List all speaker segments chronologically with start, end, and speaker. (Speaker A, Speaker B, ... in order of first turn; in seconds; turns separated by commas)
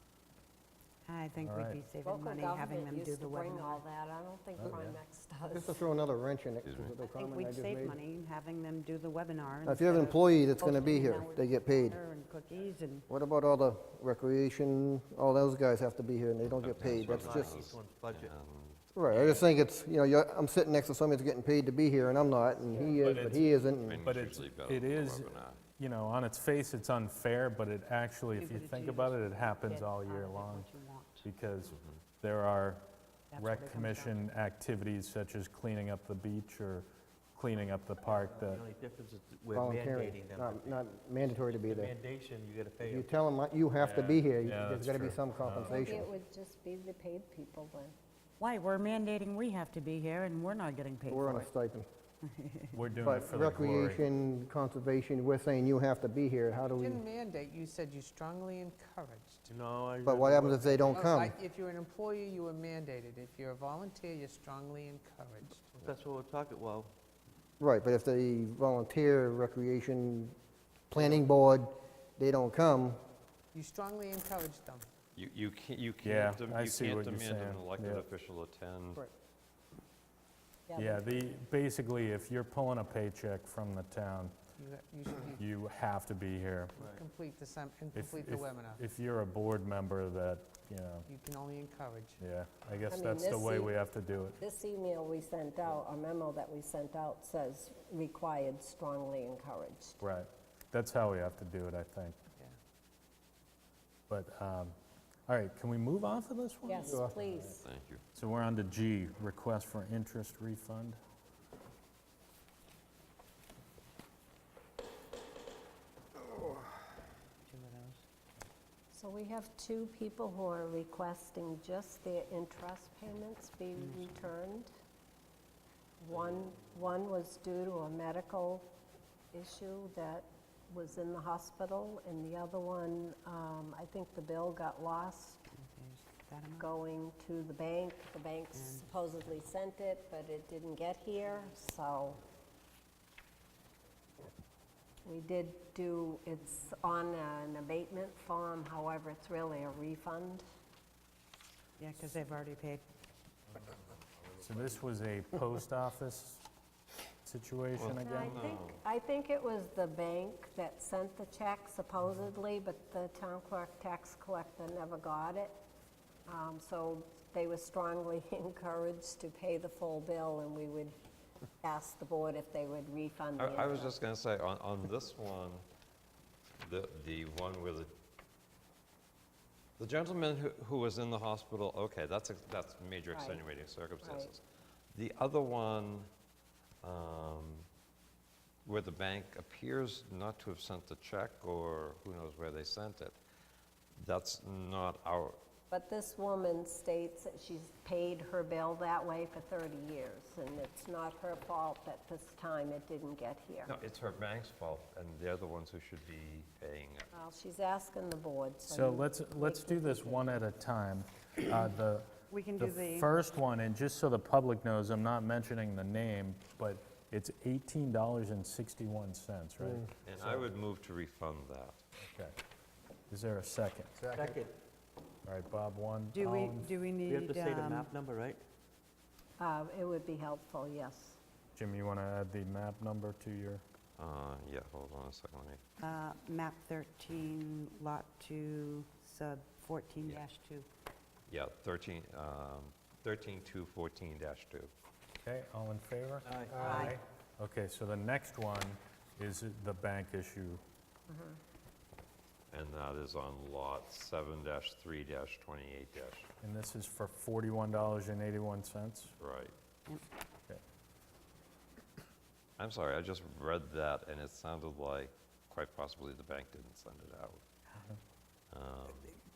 Speaker A: 1.1-3.8, Speaker B: 1.4-1.8, Speaker C: 2.0-5.9, Speaker B: 4.6-5.0, Speaker D: 5.5-8.0, Speaker E: 6.6-7.0, Speaker A: 7.1-13.1, Speaker D: 9.6-12.0, Speaker D: 13.1-17.7, Speaker E: 16.6-19.5, Speaker F: 16.8-18.3, Speaker D: 18.9-24.0, Speaker B: 23.0-23.5, Speaker E: 23.5-25.6, Speaker B: 24.0-30.7, Speaker G: 28.3-29.2, Speaker A: 28.5-31.3, Speaker B: 31.2-38.6, Speaker E: 31.7-32.0, Speaker A: 33.3-34.2, Speaker F: 38.0-43.1, Speaker D: 39.5-41.9, Speaker D: 42.8-46.1, Speaker B: 43.8-46.0, Speaker C: 45.6-47.9, Speaker A: 48.4-51.5, Speaker D: 51.1-51.9, Speaker A: 52.2-52.8, Speaker B: 52.7-54.0, Speaker D: 53.0-57.0, Speaker G: 56.7-59.5, Speaker F: 59.5-61.1, Speaker D: 60.0-61.4, Speaker G: 60.9-65.9, Speaker F: 65.8-66.9, Speaker D: 67.6-70.3, Speaker D: 70.9-73.0, Speaker G: 73.5-74.9, Speaker E: 75.1-79.0, Speaker B: 76.0-78.0, Speaker C: 80.7-81.2, Speaker B: 80.8-84.3, Speaker G: 84.6-85.4, Speaker B: 85.4-86.8, Speaker G: 86.8-88.8, Speaker B: 87.9-91.1, Speaker G: 91.0-92.2, Speaker B: 92.2-94.4, Speaker C: 92.9-93.8, Speaker C: 94.4-100.0, Speaker B: 100.0-102.2, Speaker B: 104.1-104.8, Speaker B: 105.3-107.6, Speaker C: 106.6-107.7, Speaker E: 107.6-108.0, Speaker B: 108.1-111.0, Speaker A: 117.5-117.9, Speaker F: 117.6-117.9, Speaker C: 118.9-124.7, Speaker A: 123.8-124.3, Speaker C: 126.0-128.7, Speaker C: 129.3-135.4, Speaker A: 135.5-136.7, Speaker C: 136.6-142.2, Speaker A: 138.5-138.9, Speaker C: 145.0-150.4, Speaker A: 151.8-152.8, Speaker B: 154.4-156.4, Speaker B: 157.2-158.3, Speaker E: 157.8-158.8, Speaker C: 157.9-165.5, Speaker C: 166.3-170.9, Speaker C: 171.6-174.0, Speaker E: 173.4-175.6, Speaker E: 176.6-177.9, Speaker E: 179.8-186.1, Speaker C: 183.1-183.4, Speaker C: 184.0-184.3, Speaker E: 186.8-187.7, Speaker E: 188.6-193.2, Speaker E: 193.9-195.4, Speaker C: 195.7-203.7, Speaker E: 203.7-207.1, Speaker C: 207.1-210.4, Speaker B: 208.7-220.4, Speaker A: 212.3-213.1, Speaker E: 220.0-221.8, Speaker B: 222.0-222.3, Speaker B: 223.1-223.9, Speaker D: 224.0-224.4, Speaker F: 224.1-224.5, Speaker B: 225.2-226.7, Speaker A: 226.1-227.9, Speaker F: 227.0-228.4, Speaker C: 229.4-231.2, Speaker B: 231.6-233.6, Speaker E: 234.0-235.6, Speaker A: 235.8-240.7, Speaker E: 241.3-244.7, Speaker B: 245.2-250.6, Speaker F: 246.2-246.8, Speaker A: 246.5-247.0, Speaker C: 251.1-251.4, Speaker E: 252.5-256.3, Speaker B: 256.4-259.1, Speaker E: 259.2-259.5, Speaker E: 262.6-267.4, Speaker E: 268.5-269.1